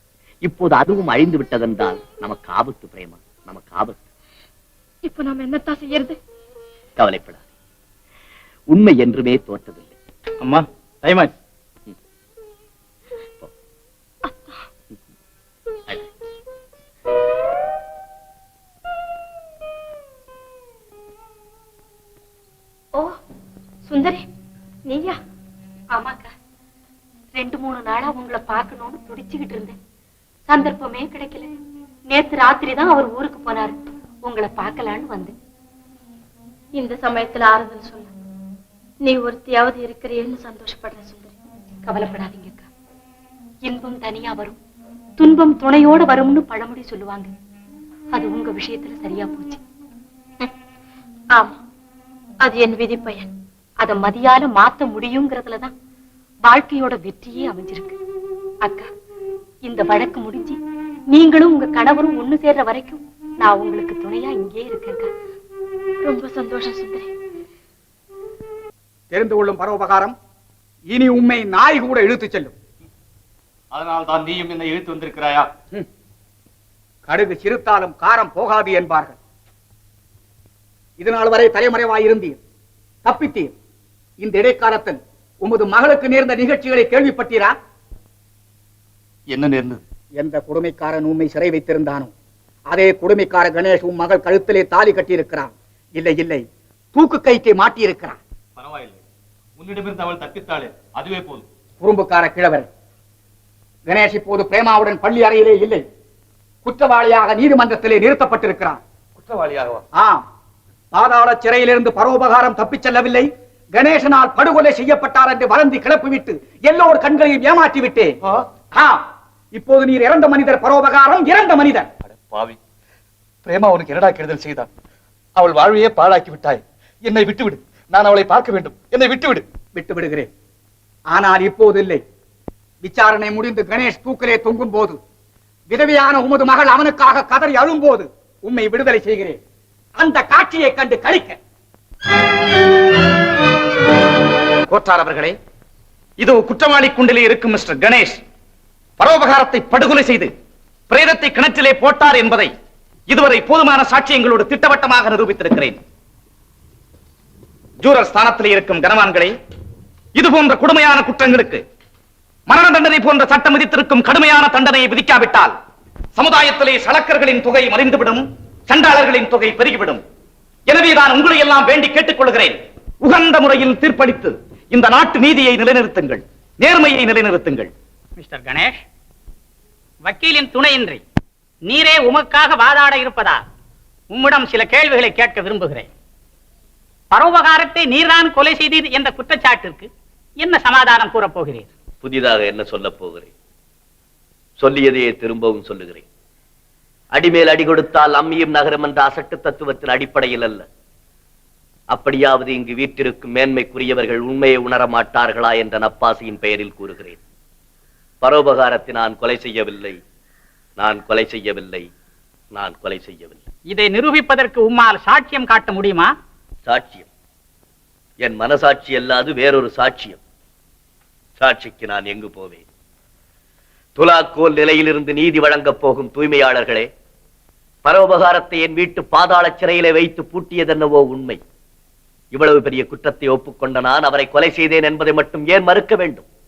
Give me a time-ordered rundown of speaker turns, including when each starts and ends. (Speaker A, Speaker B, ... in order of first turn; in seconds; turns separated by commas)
Speaker A: 0.4-4.0, Speaker A: 7.0-7.4, Speaker A: 8.7-9.9, Speaker B: 10.4-11.3, Speaker C: 23.9-24.2, Speaker C: 24.9-25.1, Speaker D: 25.9-26.3, Speaker D: 27.3-29.8, Speaker D: 30.5-31.5, Speaker D: 32.1-35.3, Speaker C: 36.7-38.1, Speaker C: 39.0-41.3, Speaker D: 41.9-42.6, Speaker D: 43.6-44.6, Speaker D: 45.2-47.3, Speaker D: 48.1-49.6, Speaker C: 52.5-53.2, Speaker D: 53.8-55.7, Speaker D: 56.4-58.0, Speaker D: 59.6-60.6, Speaker D: 61.1-65.1, Speaker C: 66.0-67.1, Speaker E: 69.1-70.1, Speaker E: 70.9-72.5, Speaker F: 73.7-75.3, Speaker E: 77.1-79.2, Speaker E: 81.0-82.4, Speaker E: 83.0-83.5, Speaker E: 84.2-87.5, Speaker E: 90.2-92.1, Speaker E: 92.7-98.2, Speaker F: 98.6-98.8, Speaker F: 99.6-101.4, Speaker E: 101.8-102.7, Speaker E: 103.9-105.8, Speaker E: 106.6-108.8, Speaker F: 109.2-109.8, Speaker E: 110.9-118.1, Speaker E: 119.5-121.9, Speaker G: 122.1-122.6, Speaker G: 123.4-124.7, Speaker G: 125.4-129.4, Speaker E: 129.7-130.3, Speaker E: 131.1-132.0, Speaker E: 132.8-134.9, Speaker E: 135.7-139.4, Speaker E: 140.0-141.4, Speaker B: 144.7-145.3, Speaker B: 146.2-148.2, Speaker B: 149.0-150.3, Speaker B: 150.9-152.5, Speaker B: 153.1-155.8, Speaker B: 157.8-159.3, Speaker B: 160.2-161.6, Speaker B: 162.5-165.5, Speaker B: 166.2-170.0, Speaker B: 170.7-177.7, Speaker H: 178.2-178.8, Speaker H: 180.0-181.0, Speaker H: 181.7-183.4, Speaker H: 184.1-185.9, Speaker H: 187.1-189.9, Speaker H: 190.4-191.7, Speaker I: 192.0-193.3, Speaker I: 194.6-196.0, Speaker I: 197.1-200.6, Speaker I: 201.9-207.1, Speaker I: 208.2-210.0, Speaker I: 210.8-211.8, Speaker I: 212.6-213.3, Speaker H: 213.7-216.1, Speaker I: 216.7-217.0, Speaker I: 218.2-220.1, Speaker I: 221.4-222.6, Speaker I: 224.0-226.8, Speaker I: 227.8-231.4, Speaker I: 232.3-236.2